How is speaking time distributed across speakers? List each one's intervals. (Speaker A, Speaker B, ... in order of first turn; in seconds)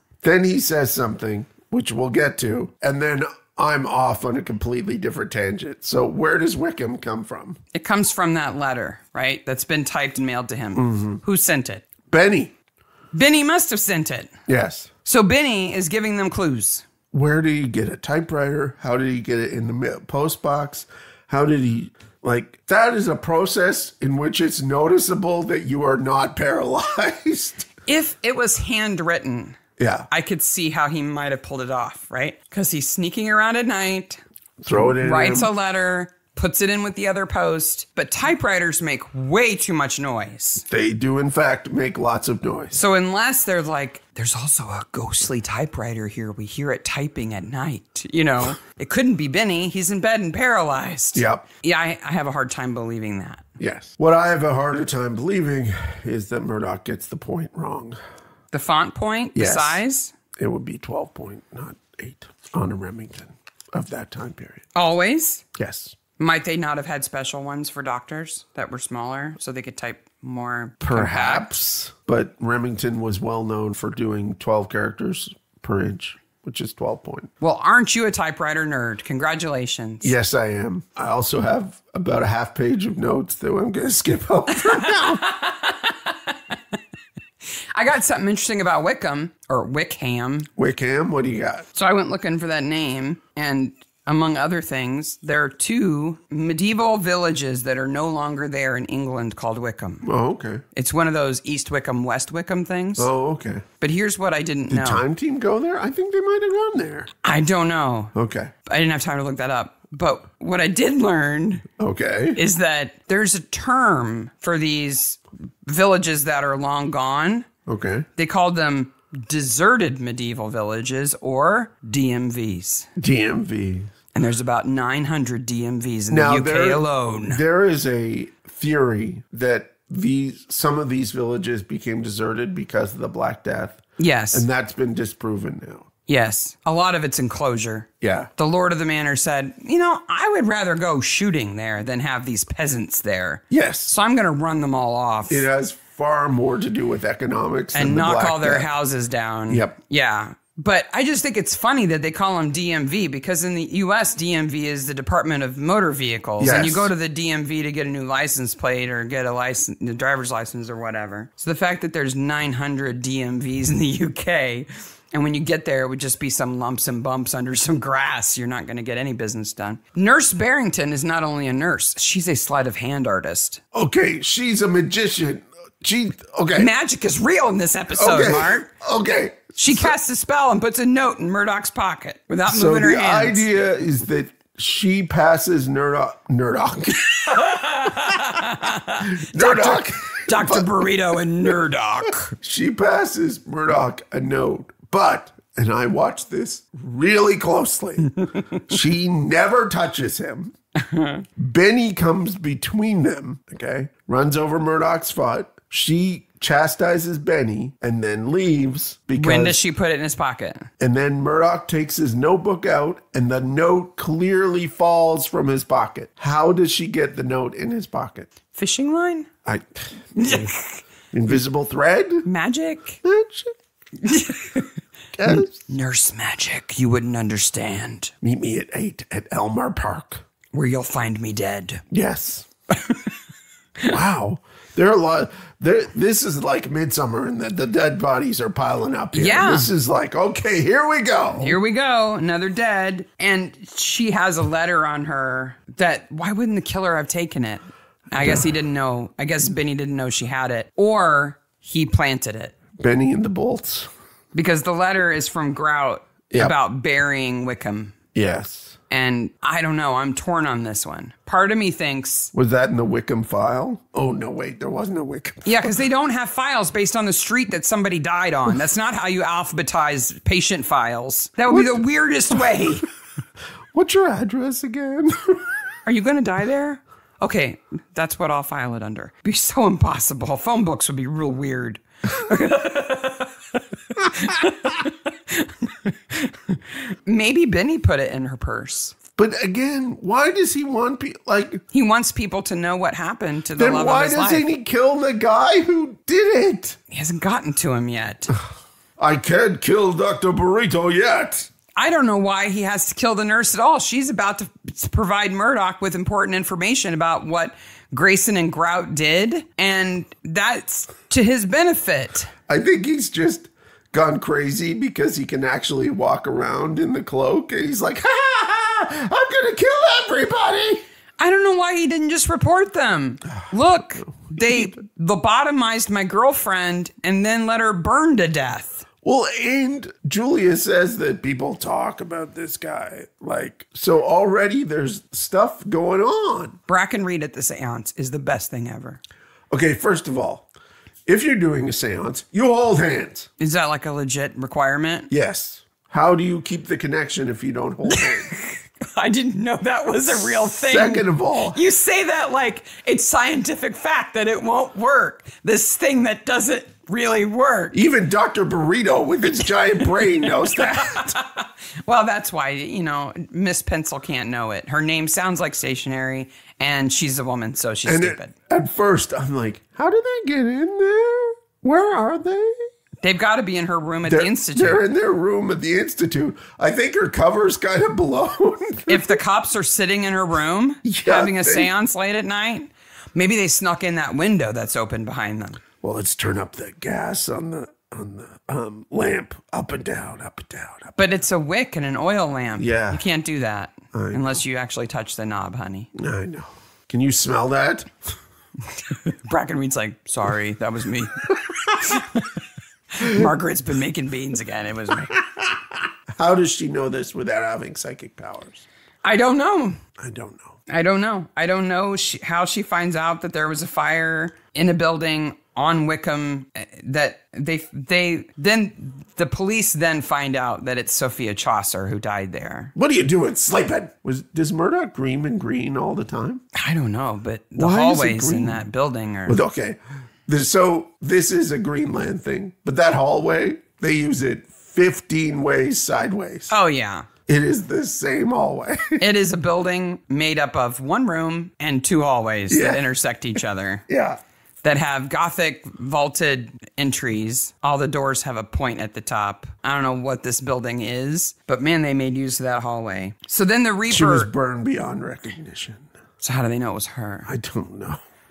Speaker A: 0.2-7.6, 10.8-11.2, 12.1-12.5, 14.5-14.9, 17.1-27.7, 29.8-30.1, 34.6-35.5, 40.7-42.8, 51.1-51.5, 53.6-58.0, 59.4-59.8, 60.4-64.6, 65.6-66.0, 70.8-77.3, 80.0-85.2, 90.6-91.7, 100.0-100.6, 103.0-103.7, 104.7-107.1, 108.1-108.5, 111.8-112.4, 117.7-118.1, 123.0-123.9, 126.1-135.9, 138.0-138.3, 143.5-144.0, 145.3-148.7, 149.5-149.8, 156.4-156.9, 173.7-176.7, 177.9-179.9, 182.5-188.4, 189.0-190.9, 192.3-200.5, 201.4-209.6, 210.8-218.3, 219.4-220.6, 221.1-222.3, 223.0-223.5, 225.1-225.6, 228.2-230.2, 231.9-232.5, 233.8-241.6, 252.8-253.9, 258.1-258.8, 262.3-265.7, 271.5-271.8, 273.7-275.5, 284.0-284.4, 289.2-291.6, 293.6-296.8, 299.0-301.5, 312.5-320.8, 323.3-324.8, 329.0-336.6, 339.5-340.5, 341.1-343.3, 345.1-348.4, 350.2-351.6, 357.7-361.2, 367.9-372.7, 374.1-379.2, 380.8-381.7, 385.8-391.0, 392.6-393.0, 393.9-394.4, 396.0-398.1, 401.6-401.9, 405.2-408.6, 410.0-410.6, 422.8-426.4, 427.6-428.6, 429.3-436.5, 437.3-439.0, 442.5-442.8, 443.9-444.2, 453.9-455.9, 457.3-458.0
Speaker B: 7.7-11.8, 13.1-14.3, 15.1-16.9, 27.9-29.6, 30.1-34.2, 34.7-40.6, 42.8-53.5, 58.5-60.1, 64.8-65.5, 66.2-71.5, 77.4-80.1, 84.6-86.6, 87.8-90.5, 91.8-100.0, 100.7-103.1, 103.8-105.0, 107.2-108.1, 108.7-111.7, 112.3-117.5, 118.2-122.9, 124.1-127.4, 134.0-134.5, 136.1-145.5, 147.7-173.6, 176.6-178.7, 179.6-183.4, 187.1-192.3, 198.2-198.5, 200.8-201.3, 209.2-210.7, 218.5-219.3, 220.2-220.8, 222.2-223.0, 224.0-224.7, 225.3-228.1, 230.5-231.8, 232.8-233.1, 239.1-239.7, 241.4-252.5, 254.3-257.9, 258.9-262.3, 265.5-272.9, 275.9-289.0, 291.7-294.5, 296.9-298.3, 301.8-312.3, 321.2-328.9, 336.7-339.0, 343.4-345.1, 347.9-357.8, 359.4-368.3, 373.0-374.8, 378.9-385.6, 391.0-395.9, 398.9-402.4, 402.9-405.2, 409.0-409.8, 410.7-422.7, 426.5-429.4, 436.5-437.1, 439.0-443.9, 444.6-454.3, 456.2-457.3